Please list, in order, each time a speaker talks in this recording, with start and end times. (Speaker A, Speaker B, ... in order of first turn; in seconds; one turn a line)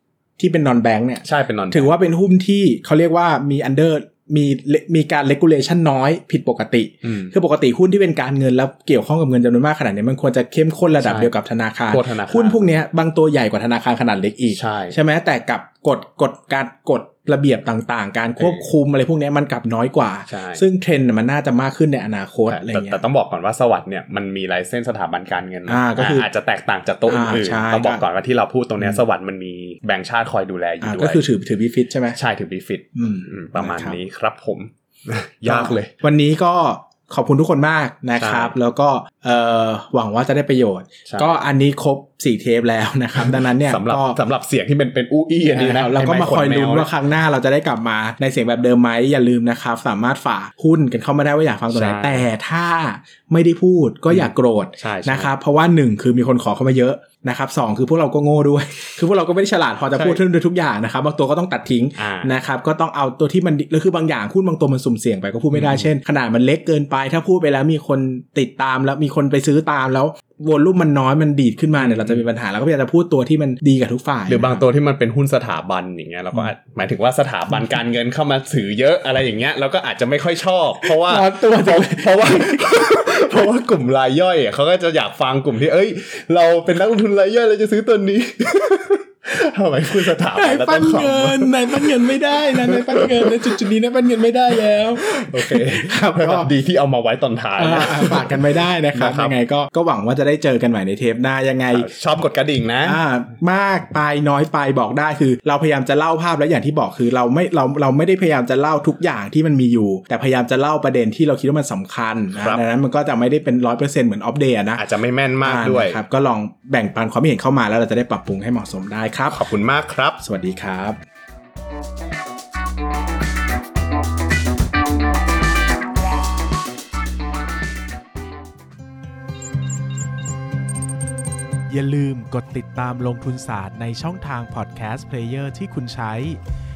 Speaker A: 0.4-23.0
Speaker B: 1.2-1.9
Speaker B: 7.0-7.3
Speaker B: 10.9-11.3
Speaker B: 11.9-12.7
Speaker B: 14.5-15.0
Speaker B: 18.4-18.7
Speaker B: 20.3-20.6
Speaker B: 22.5-31.2
Speaker A: 25.7-26.3
Speaker A: 27.1-28.0
Speaker A: 30.8-32.2
Speaker B: 32.1-35.9
Speaker A: 33.0-34.0
Speaker A: 35.5-44.2
Speaker B: 38.2-38.5
Speaker B: 41.0-41.4
Speaker B: 43.2-46.9
Speaker A: 45.5-74.6
Speaker B: 51.7-52.3
Speaker B: 54.1-55.3
Speaker B: 59.9-60.2
Speaker B: 62.0-62.3
Speaker B: 65.5-65.9
Speaker B: 71.8-72.2
Speaker B: 74.3-93.7
Speaker A: 80.9-83.2
Speaker A: 90.0-96.5
Speaker B: 95.0-99.4
Speaker A: 97.6-101.9
Speaker B: 101.7-103.0
Speaker A: 102.8-114.8
Speaker B: 112.3-112.6
Speaker B: 114.8-116.0
Speaker A: 115.4-119.5
Speaker B: 119.3-120.2
Speaker A: 120.2-121.0
Speaker A: 131.7-136.4